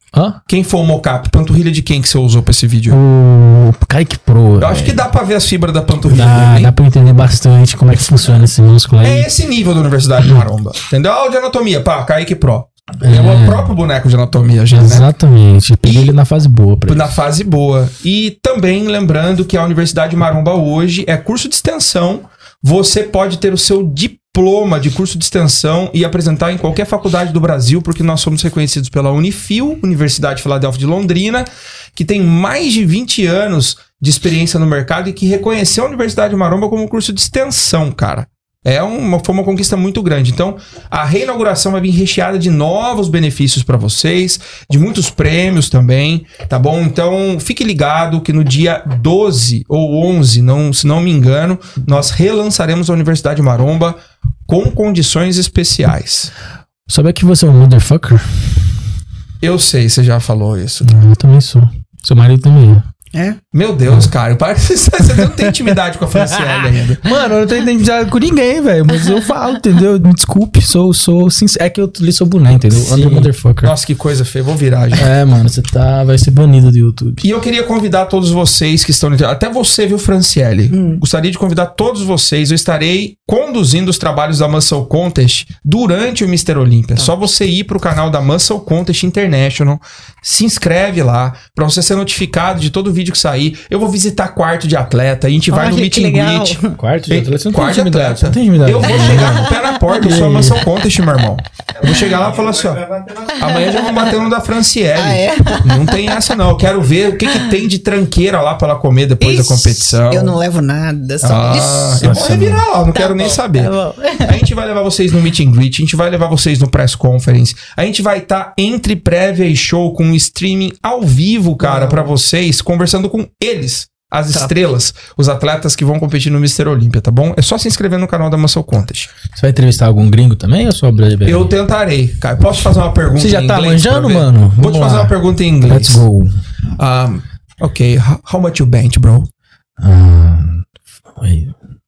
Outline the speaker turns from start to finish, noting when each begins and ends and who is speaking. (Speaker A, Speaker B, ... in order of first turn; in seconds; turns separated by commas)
Speaker A: 0.1-0.4, Speaker B: 0.5-3.0, Speaker A: 2.9-5.0, Speaker B: 4.6-6.7, Speaker A: 6.1-9.3, Speaker B: 9.0-15.1, Speaker A: 13.0-13.7, Speaker A: 14.7-17.1, Speaker B: 15.8-16.1, Speaker B: 16.9-56.3, Speaker A: 56.9-58.7, Speaker B: 59.4-61.0, Speaker A: 60.8-62.8, Speaker C: 63.1-63.4, Speaker B: 63.5-67.0, Speaker A: 65.2-65.5, Speaker A: 66.2-73.7, Speaker B: 72.8-75.1, Speaker A: 75.0-77.2, Speaker B: 77.2-110.3, Speaker C: 80.7-81.0, Speaker C: 95.5-96.8, Speaker A: 96.7-100.7, Speaker C: 99.0-99.8, Speaker C: 101.8-102.2, Speaker C: 103.2-104.1, Speaker C: 104.9-106.4, Speaker C: 109.2-112.2, Speaker B: 111.2-129.1, Speaker A: 112.0-112.6, Speaker C: 112.9-114.4, Speaker C: 121.6-122.1, Speaker A: 129.3-131.5, Speaker B: 131.2-136.0, Speaker A: 133.2-136.4, Speaker B: 136.8-139.3, Speaker A: 139.8-140.6, Speaker A: 141.2-141.5